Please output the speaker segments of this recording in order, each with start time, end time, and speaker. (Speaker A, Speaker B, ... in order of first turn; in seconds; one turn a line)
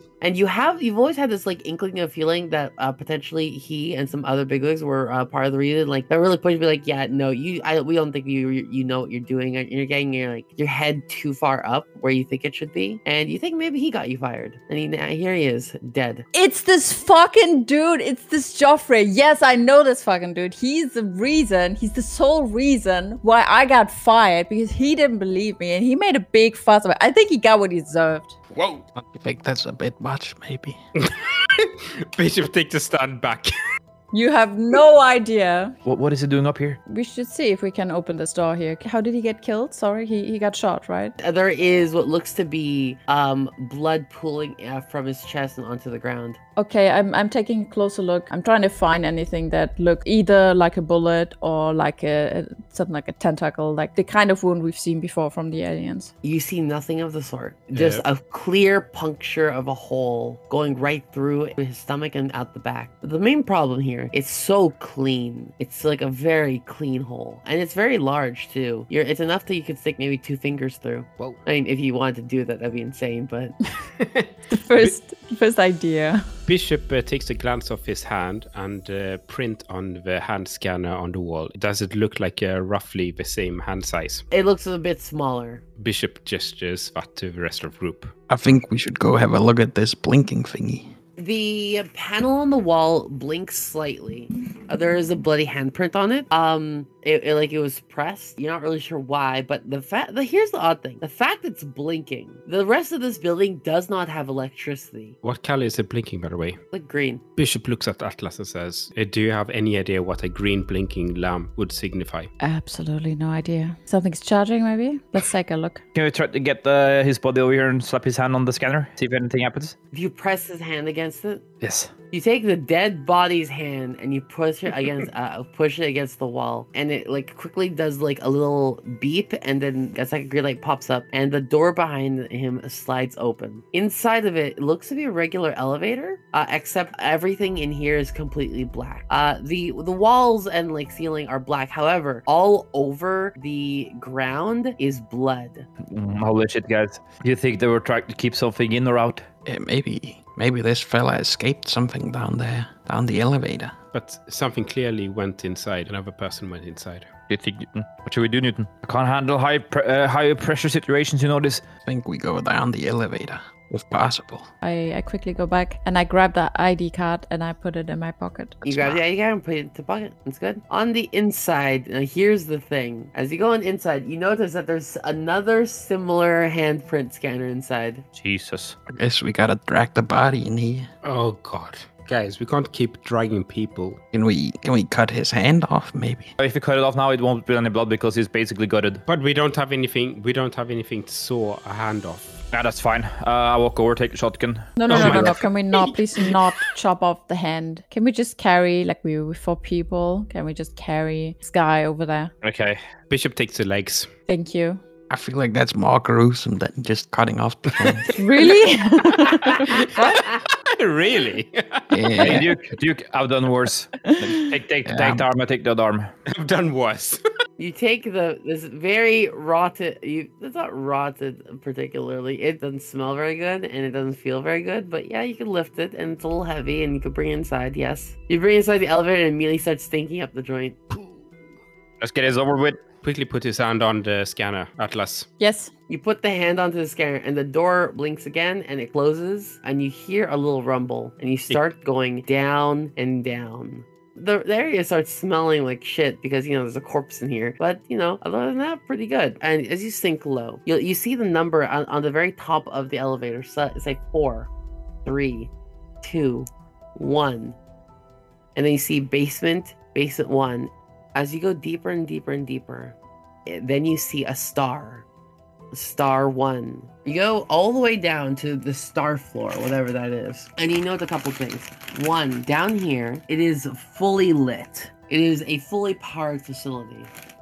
Speaker A: 0.2-16.2
Speaker B: 16.3-28.4
Speaker C: 28.5-28.8
Speaker D: 28.9-30.8
Speaker C: 31.0-33.5
Speaker B: 34.1-35.7
Speaker E: 35.8-36.8
Speaker B: 36.9-41.1
Speaker A: 41.2-46.4
Speaker B: 46.5-56.1
Speaker A: 56.2-73.5
Speaker C: 57.7-58.0
Speaker C: 74.0-74.9
Speaker B: 74.5-76.3
Speaker C: 76.5-84.2
Speaker A: 84.3-85.6
Speaker C: 85.8-88.1
Speaker D: 88.3-90.9
Speaker A: 91.2-105.2
Speaker C: 105.2-106.6
Speaker A: 106.7-107.2
Speaker C: 107.4-112.3
Speaker B: 112.4-115.8
Speaker E: 115.9-119.8
Speaker A: 119.9-121.5
Speaker E: 121.6-121.9
Speaker A: 122.1-145.7
Speaker E: 145.9-149.2
Speaker D: 149.4-153.8
Speaker C: 153.9-157.1
Speaker E: 157.3-161.6
Speaker D: 161.8-164.5
Speaker B: 164.6-168.7
Speaker A: 168.6-178.1
Speaker D: 168.7-169.0
Speaker E: 178.1-178.8
Speaker D: 178.9-180.9
Speaker C: 181.0-184.0
Speaker D: 184.1-186.3
Speaker E: 186.4-189.0
Speaker C: 189.1-192.3
Speaker E: 192.5-195.5
Speaker B: 194.8-202.3
Speaker C: 194.9-195.5
Speaker E: 202.4-202.8
Speaker C: 203.1-204.1
Speaker B: 204.3-204.8
Speaker D: 205.1-208.2
Speaker B: 208.1-209.8
Speaker C: 209.2-212.4
Speaker D: 211.9-212.5
Speaker E: 212.2-216.1
Speaker B: 214.0-214.3
Speaker D: 214.8-215.2
Speaker C: 216.3-217.2
Speaker A: 217.6-230.9
Speaker E: 232.0-232.8
Speaker C: 233.0-235.3
Speaker B: 235.4-235.7
Speaker A: 235.9-254.5
Speaker A: 255.0-255.5
Speaker A: 256.0-257.6
Speaker A: 258.5-262.9
Speaker A: 263.5-265.0
Speaker A: 265.7-277.1